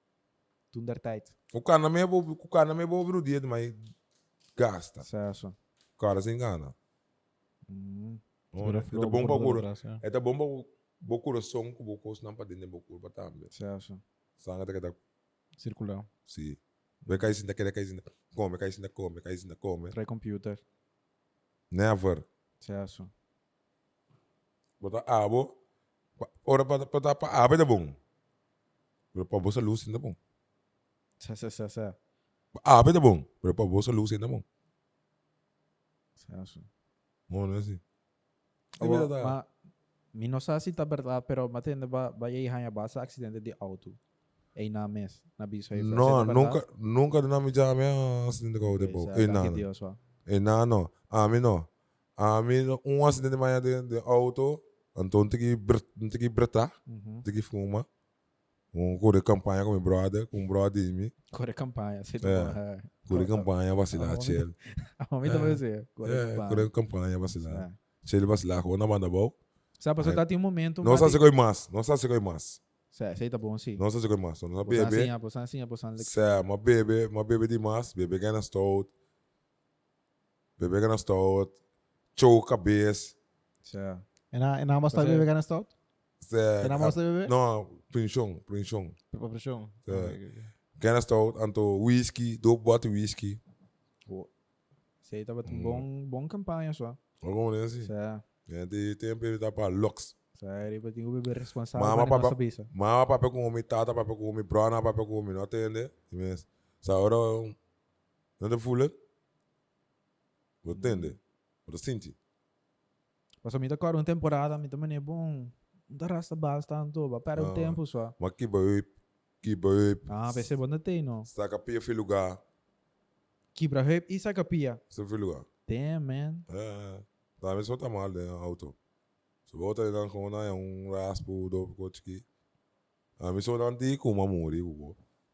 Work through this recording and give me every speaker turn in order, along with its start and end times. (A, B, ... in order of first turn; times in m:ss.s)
0:00.7-0:01.3 A
0:01.5-0:03.9 B
0:04.6-0:05.0 B
0:05.0-0:05.6 A
0:06.0-0:06.8 B
0:07.7-0:08.2 A
0:08.5-0:13.5 B
0:08.6-0:10.0 C
0:13.5-0:14.0 A
0:14.4-0:15.0 B
0:15.6-0:16.1 C
0:16.3-0:20.0 B
0:19.9-0:20.6 A
0:21.7-0:22.3 B
0:22.6-0:23.1 A
0:24.8-0:25.6 B
0:26.2-0:28.0 B
0:29.1-0:30.2 B
0:31.2-0:32.0 A
0:32.6-0:34.4 B
0:36.2-0:36.7 A
0:37.3-0:37.8 B
0:38.8-0:39.4 B
0:38.8-0:39.5 A
0:40.1-0:44.0 A
0:44.6-0:46.6 A
0:45.8-0:49.6 B
0:48.6-0:50.0 A
0:50.3-0:51.7 B
0:52.2-0:57.9 B
0:56.9-0:57.2 A
0:58.7-1:01.1 B
1:01.3-1:06.7 A
1:02.2-1:04.6 B
1:05.2-1:09.4 B
1:07.4-1:07.8 A
1:09.8-1:11.2 A
1:10.8-1:12.6 B
1:12.9-1:13.8 A
1:13.8-1:15.1 B
1:14.7-1:16.2 A
1:16.0-1:18.9 B
1:20.6-1:21.5 B
1:22.2-1:23.2 B
1:23.6-1:24.0 A
1:24.3-1:25.7 C
1:24.9-1:25.3 A
1:26.2-1:29.0 B
1:26.6-1:27.3 C
1:29.1-1:30.5 C
1:29.9-1:30.2 B
1:30.8-1:33.4 B
1:35.0-1:37.0 A
1:35.4-1:35.8 B
1:37.2-1:37.9 B
1:37.8-1:38.2 A
1:38.5-1:40.1 B
1:40.4-1:42.7 A
1:41.7-1:47.6 B
1:48.4-1:48.9 B
1:50.6-1:52.2 B
1:50.7-1:51.1 A
1:53.4-1:58.2 A
1:57.3-1:58.9 B
1:59.4-2:00.5 B
2:00.1-2:01.3 A
2:01.3-2:02.4 B
2:03.6-2:04.8 A
2:04.9-2:05.5 B
2:05.7-2:06.5 A
2:06.5-2:08.8 B
2:09.5-2:12.2 B
2:13.2-2:15.0 B